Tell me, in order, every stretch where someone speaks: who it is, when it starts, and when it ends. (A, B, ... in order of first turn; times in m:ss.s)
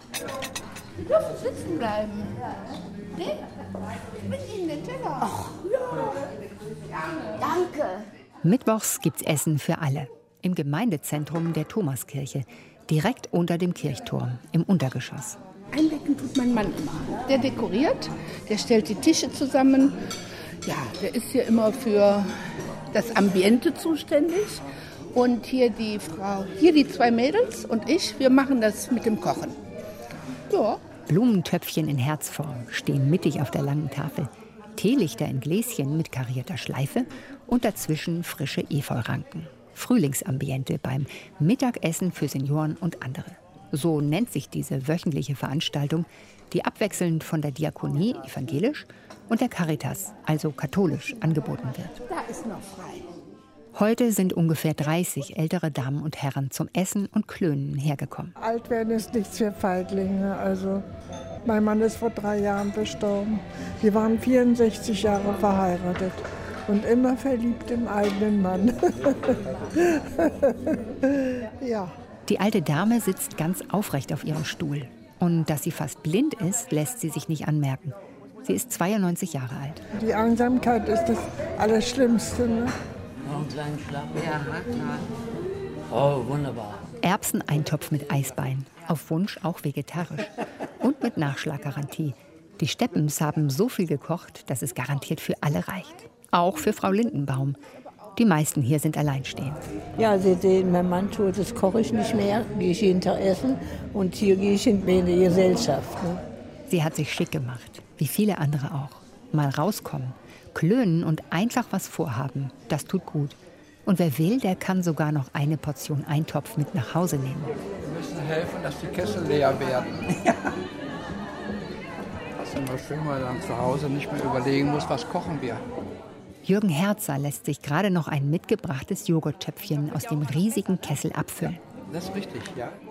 0:01.0-0:02.4 A
0:03.1-0:03.4 A
0:04.2-0:06.2 A
0:06.9-0:08.1 A
0:08.4-0:15.4 B
0:15.7-0:20.0 A
0:20.6-0:29.6 A
0:30.5-0:30.8 A
0:31.0-0:52.0 B
0:52.1-0:53.1 A
0:53.8-0:58.4 B
0:58.4-1:00.8 C
1:01.4-1:09.4 C
1:10.3-1:10.5 C
1:11.4-1:11.9 C
1:12.3-1:19.8 B
1:19.9-1:22.7 C
1:23.3-1:25.0 D
1:25.9-1:26.7 D
1:27.0-1:37.6 B
1:38.2-1:39.6 B
1:40.0-1:46.2 E
1:46.7-1:57.6 B
1:57.8-2:00.3 F
2:02.4-2:05.6 F
2:06.4-2:11.6 B
2:11.9-2:12.7 F